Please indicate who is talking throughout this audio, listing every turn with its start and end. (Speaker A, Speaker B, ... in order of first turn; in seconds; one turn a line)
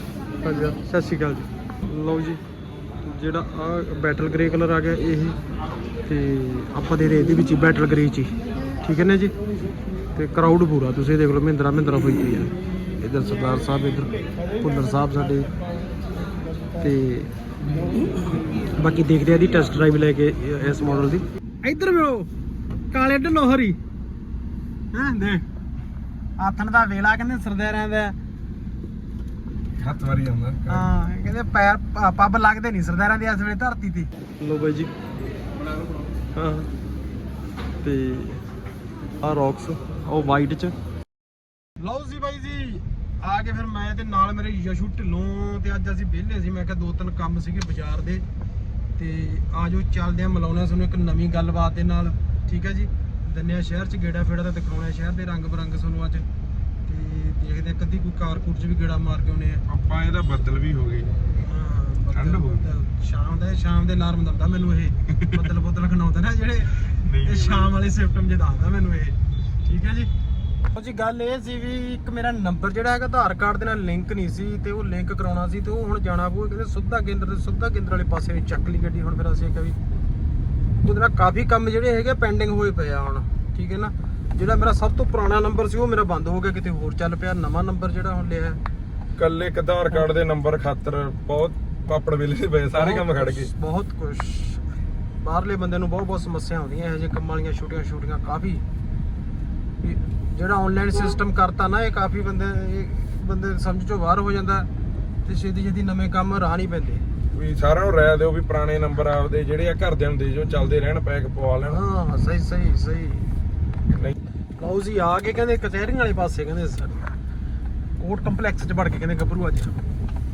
Speaker A: 0.4-2.4
Speaker A: 3.0-5.4
Speaker A: 6.1-9.3
Speaker A: 10.2-15.5
Speaker A: 16.8-17.3
Speaker A: 18.8-22.3
Speaker A: 22.9-23.8
Speaker A: 24.9-25.5
Speaker A: 26.4-28.2
Speaker B: 29.8-30.9
Speaker A: 30.7-34.9
Speaker A: 36.3-36.7
Speaker A: 37.8-38.4
Speaker A: 39.2-40.8
Speaker A: 41.8-48.2
Speaker A: 49.0-56.3
Speaker A: 56.9-59.6
Speaker B: 59.7-61.3
Speaker A: 61.4-70.1
Speaker B: 62.1-62.6
Speaker B: 66.9-67.7
Speaker A: 70.7-79.8
Speaker A: 80.8-88.6
Speaker B: 89.2-93.5
Speaker A: 92.7-98.6
Speaker A: 99.8-104.7
Speaker A: 105.2-107.0
Speaker B: 107.3-111.8
Speaker A: 111.6-113.3
Speaker B: 113.9-114.2
Speaker A: 114.6-117.1
Speaker A: 118.0-119.8